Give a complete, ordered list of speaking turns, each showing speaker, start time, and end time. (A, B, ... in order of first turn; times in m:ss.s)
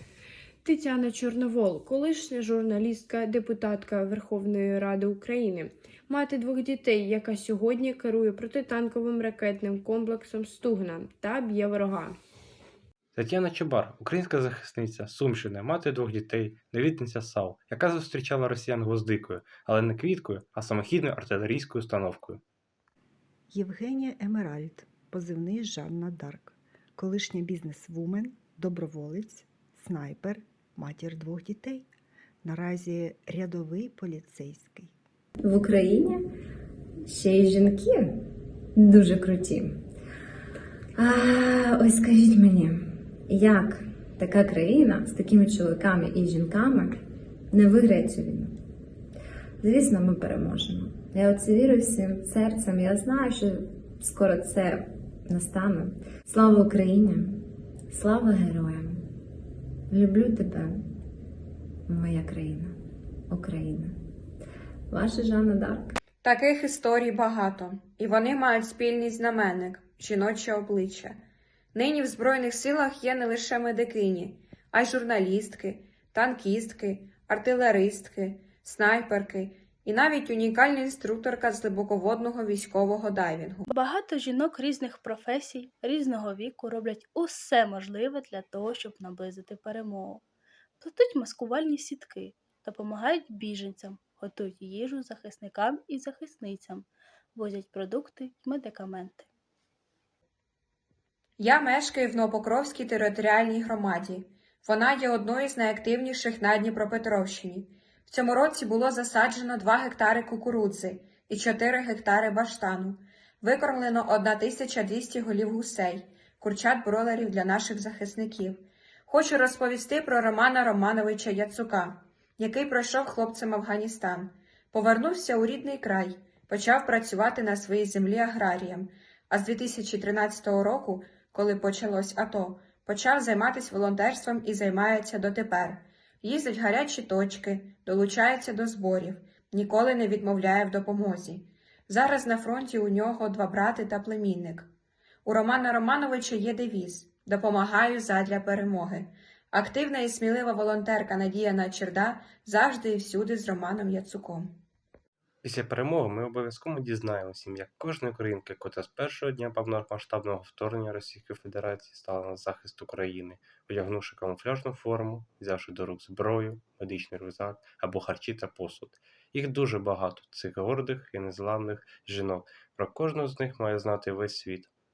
0:00.6-0:12.2 A
0:13.2-0:22.4 B
0:23.5-0:31.9 C
0:32.4-0:35.0 C
0:35.4-0:36.2 D
0:37.1-0:38.2 D
0:38.8-0:39.8 D
0:41.0-0:47.0 D
0:47.5-0:48.5 D
0:49.6-0:57.4 D
0:57.9-0:59.0 D
0:59.9-1:00.8 D
1:01.9-1:02.7 D
1:03.3-1:03.9 D
1:04.9-1:05.9 D
1:06.2-1:11.2 E
1:11.7-1:23.7 E
1:23.7-1:30.2 F
1:30.8-1:39.3 F
1:41.4-2:24.7 E
2:25.2-2:34.6 E
2:35.4-2:54.7 B